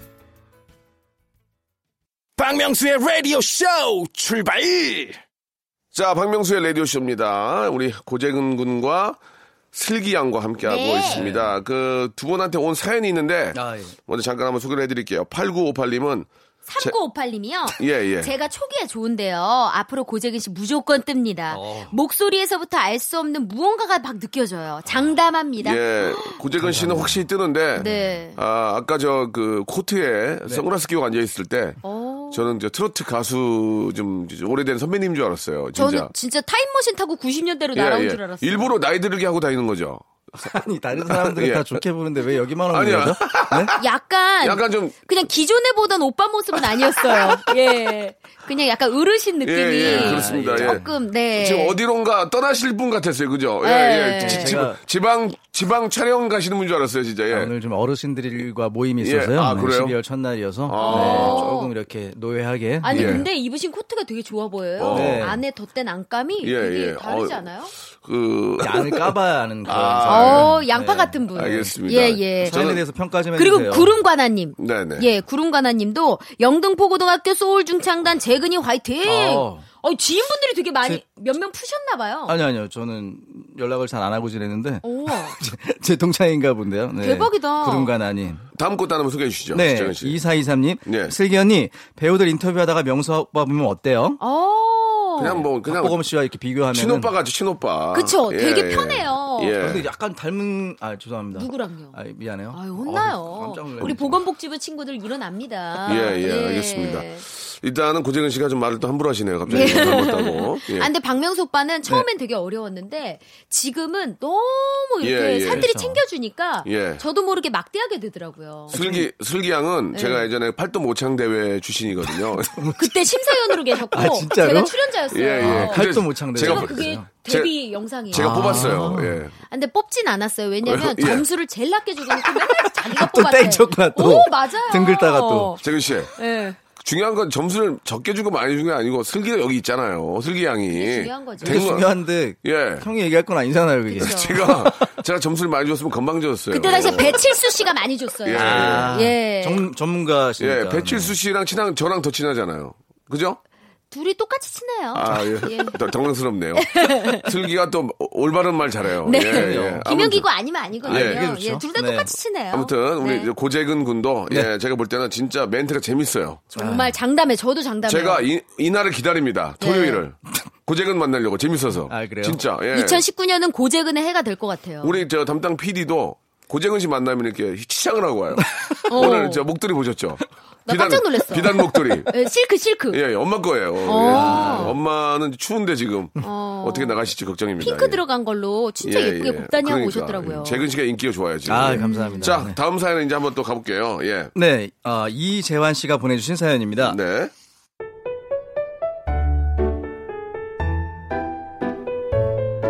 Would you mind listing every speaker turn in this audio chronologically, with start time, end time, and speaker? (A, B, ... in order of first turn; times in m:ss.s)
0:02.4-0:05.2 A
0:05.9-0:09.2 B
0:09.7-0:16.3 B
0:10.6-0:11.2 C
0:11.1-0:11.5 D
0:13.5-0:14.0 D
0:16.7-0:26.4 C
0:17.7-0:18.3 B
0:21.5-0:21.9 D
0:25.6-0:31.8 B
0:26.6-0:27.2 D
0:27.8-0:28.4 C
0:31.8-0:32.5 C
0:32.3-0:36.1 B
0:35.8-0:38.8 C
0:37.7-0:40.0 B
0:40.4-0:43.7 D
0:41.0-0:41.8 B
0:42.7-0:43.8 B
0:43.8-0:51.8 C
0:44.4-0:45.0 B
0:47.0-0:47.4 B
0:49.4-0:57.5 B
0:49.8-0:50.9 D
0:53.6-0:54.6 C
0:54.2-0:54.8 D
0:57.3-1:03.2 D
0:59.0-1:00.0 B
1:00.6-1:01.5 B
1:00.8-1:01.7 C
1:02.8-1:07.7 C
1:02.9-1:03.3 B
1:04.8-1:05.3 B
1:04.9-1:05.4 D
1:06.4-1:09.1 B
1:08.6-1:11.7 D
1:09.6-1:10.5 B
1:10.0-1:12.6 C
1:11.3-1:12.8 B
1:12.4-1:13.9 D
1:13.4-1:22.4 C
1:14.6-1:15.1 B
1:19.0-1:19.6 D
1:22.3-1:28.4 D
1:24.8-1:25.4 C
1:27.0-1:27.9 C
1:28.5-1:30.2 B
1:29.5-1:34.2 D
1:30.8-1:31.1 B
1:34.2-1:35.4 C
1:35.2-1:36.0 B
1:35.3-1:37.1 D
1:36.7-1:39.9 B
1:37.9-1:39.6 C
1:39.6-1:44.2 D
1:41.3-1:42.0 C
1:42.5-1:47.2 C
1:45.8-1:50.9 B
1:49.5-1:50.0 D
1:49.5-1:58.8 C
1:55.0-1:55.7 B
1:55.5-1:56.0 D
1:56.6-1:57.0 B
1:58.7-1:59.1 D
1:58.7-2:02.7 B
1:59.9-2:00.2 C
2:02.0-2:02.9 D
2:02.8-2:05.8 C
2:03.9-2:04.7 D
2:05.1-2:07.5 B
2:05.4-2:07.1 D
2:06.3-2:08.8 C
2:08.1-2:09.3 B
2:08.1-2:09.2 D
2:09.5-2:15.6 C
2:10.6-2:11.2 B
2:12.7-2:15.5 D
2:15.6-2:16.1 B
2:16.2-2:16.6 C
2:16.8-2:21.9 B
2:20.7-2:21.7 C
2:21.4-2:24.9 D
2:22.4-2:22.8 B
2:23.9-2:24.4 C
2:24.0-2:27.3 B
2:26.5-2:29.7 C
2:28.2-2:28.9 B
2:28.3-2:31.1 D
2:30.4-2:33.4 B
2:33.9-2:35.8 C
2:34.9-2:40.2 B
2:36.6-2:37.3 C
2:39.0-2:43.3 C
2:39.1-2:39.9 D
2:40.8-2:41.3 B
2:40.8-2:42.1 D
2:42.5-2:46.4 B
2:46.5-2:48.2 C
2:46.6-2:46.9 D
2:47.8-2:53.0 B
2:49.6-2:50.0 C
2:51.9-2:52.4 D
2:52.7-2:55.0 C
2:54.8-3:02.1 B
2:58.4-2:58.8 D
2:58.9-2:59.4 C
3:00.6-3:03.0 C
3:02.9-3:08.0 B
3:03.8-3:04.7 C
3:04.0-3:04.8 D
3:06.2-3:07.0 C
3:07.6-3:10.6 C
3:08.8-3:14.3 B
3:11.5-3:12.6 D
3:11.8-3:12.4 C
3:14.3-3:17.0 D
3:16.8-3:17.3 B